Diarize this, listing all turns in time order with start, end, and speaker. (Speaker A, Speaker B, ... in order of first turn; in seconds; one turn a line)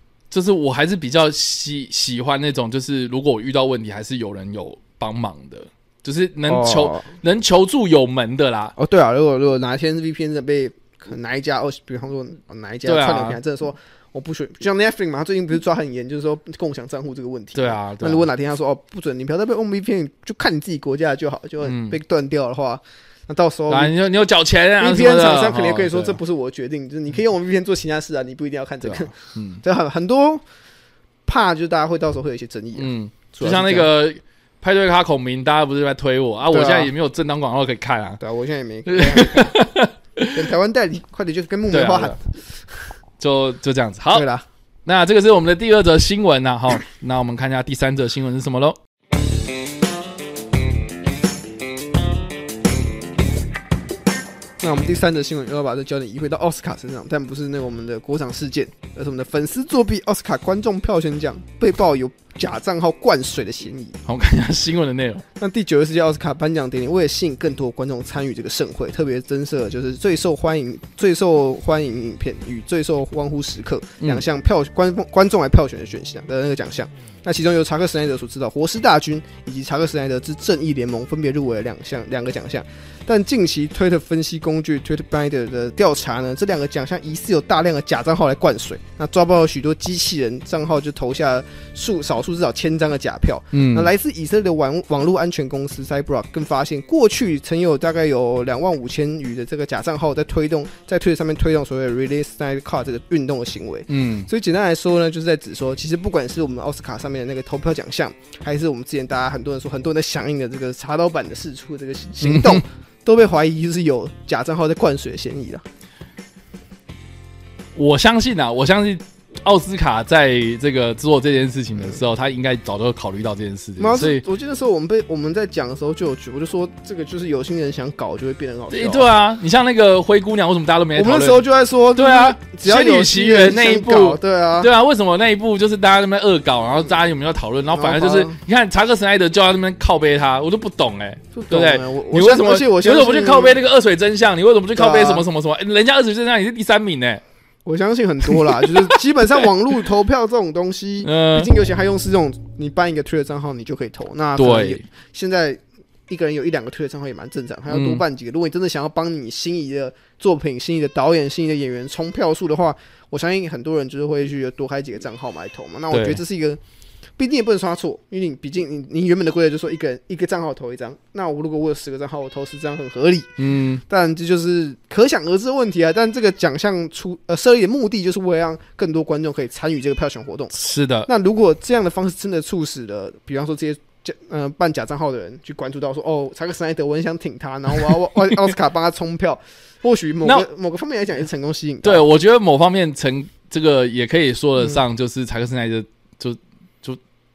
Speaker A: 0.3-8.7
Speaker B: 6.5-7.1
Speaker B: 8.8-24.0
Speaker A: 12.8-13.4
Speaker A: 17.5-18.2
Speaker A: 21.6-22.0
Speaker A: 23.7-26.2
Speaker B: 24.8-30.4
Speaker A: 28.8-29.6
Speaker B: 31.2-33.9
Speaker A: 32.8-38.2
Speaker B: 36.5-36.9
Speaker B: 38.2-39.6
Speaker A: 38.9-40.4
Speaker B: 40.3-42.9
Speaker A: 41.7-42.2
Speaker A: 43.2-44.3
Speaker B: 44.1-44.4
Speaker A: 44.8-48.8
Speaker B: 54.6-64.0
Speaker A: 64.0-65.2
Speaker B: 65.4-115.6
Speaker A: 93.5-93.9
Speaker A: 103.9-104.3
Speaker A: 112.2-112.6
Speaker A: 117.7-124.2
Speaker B: 123.8-129.1
Speaker A: 128.7-147.2
Speaker B: 130.9-134.7
Speaker B: 137.7-138.4
Speaker B: 141.3-143.6
Speaker B: 144.8-145.2
Speaker B: 147.6-166.6
Speaker A: 148.3-148.9
Speaker A: 151.0-151.5
Speaker A: 154.4-154.8
Speaker A: 157.7-158.0
Speaker A: 165.9-166.2
Speaker B: 167.2-192.1
Speaker A: 173.4-173.8
Speaker A: 180.5-181.1
Speaker A: 190.2-190.5
Speaker A: 191.8-197.0